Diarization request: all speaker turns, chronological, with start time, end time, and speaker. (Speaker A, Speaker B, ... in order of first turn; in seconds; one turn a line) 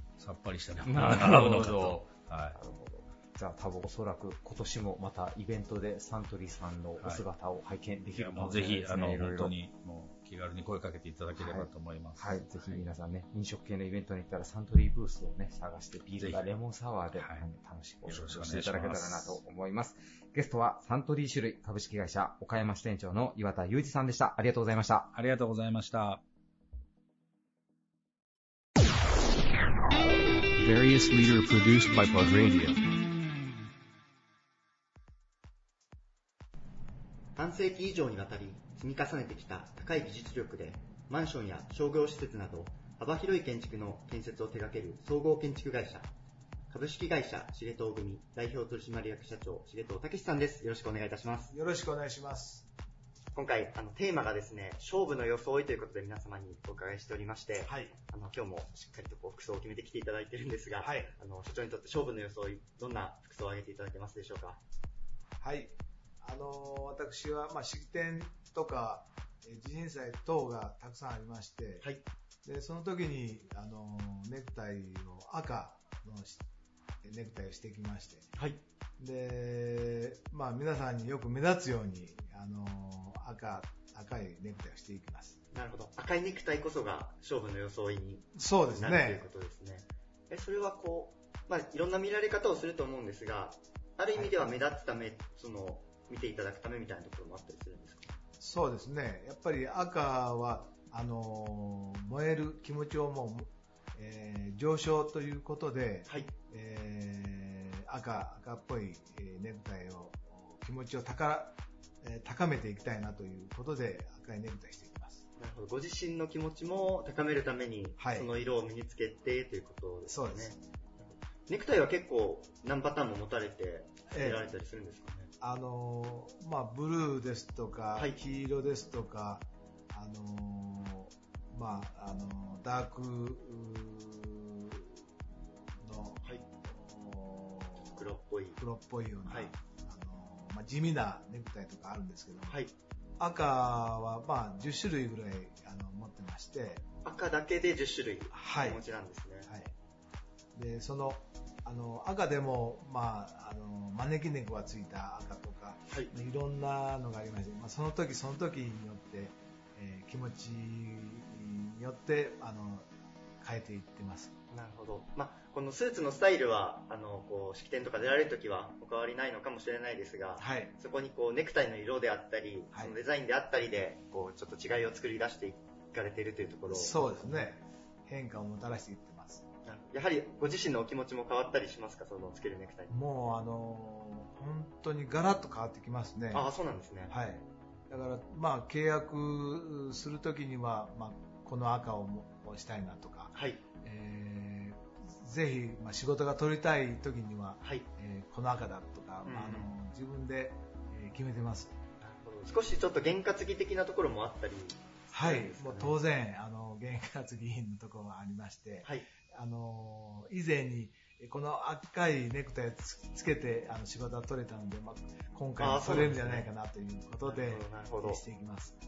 Speaker A: 0.2-2.5
Speaker B: 0.8-9.6
Speaker A: 8.2-12.8
Speaker B: 11.3-25.1
Speaker A: 18.1-19.4
Speaker A: 25.1-26.2
Speaker C: 30.6-32.8
Speaker D: 37.4-46.1
Speaker D: 46.7-51.5
Speaker E: 51.5-52.7
Speaker D: 53.4-64.6
Speaker E: 57.6-58.0
Speaker E: 60.8-61.1
Speaker E: 65.4-71.9
Speaker E: 72.5-76.5
Speaker E: 77.0-78.3
Speaker D: 78.4-78.6
Speaker E: 79.0-85.4
Speaker D: 85.5-98.2
Speaker E: 88.3-89.2
Speaker E: 94.1-94.4
Speaker E: 98.4-115.3
Speaker D: 106.1-106.3
Speaker D: 115.4-125.3
Speaker E: 118.0-118.3
Speaker E: 120.1-120.6
Speaker E: 124.1-124.5
Speaker E: 125.4-134.9
Speaker E: 135.8-138.0
Speaker D: 138.0-138.6
Speaker E: 138.6-142.6
Speaker D: 139.3-139.5
Speaker D: 142.5-142.7
Speaker E: 143.2-146.8
Speaker D: 147.0-149.5
Speaker E: 148.3-148.8
Speaker E: 149.5-149.7
Speaker E: 150.6-162.9
Speaker E: 163.4-164.3
Speaker D: 164.5-177.6
Speaker E: 170.4-170.7
Speaker E: 176.7-179.4
Speaker D: 179.7-182.9
Speaker E: 182.9-186.5
Speaker D: 186.3-187.1
Speaker E: 187.1-201.8
Speaker D: 193.3-193.6
Speaker D: 199.2-199.7
Speaker D: 202.0-206.0
Speaker E: 205.1-218.8
Speaker D: 215.6-216.5
Speaker D: 217.2-218.2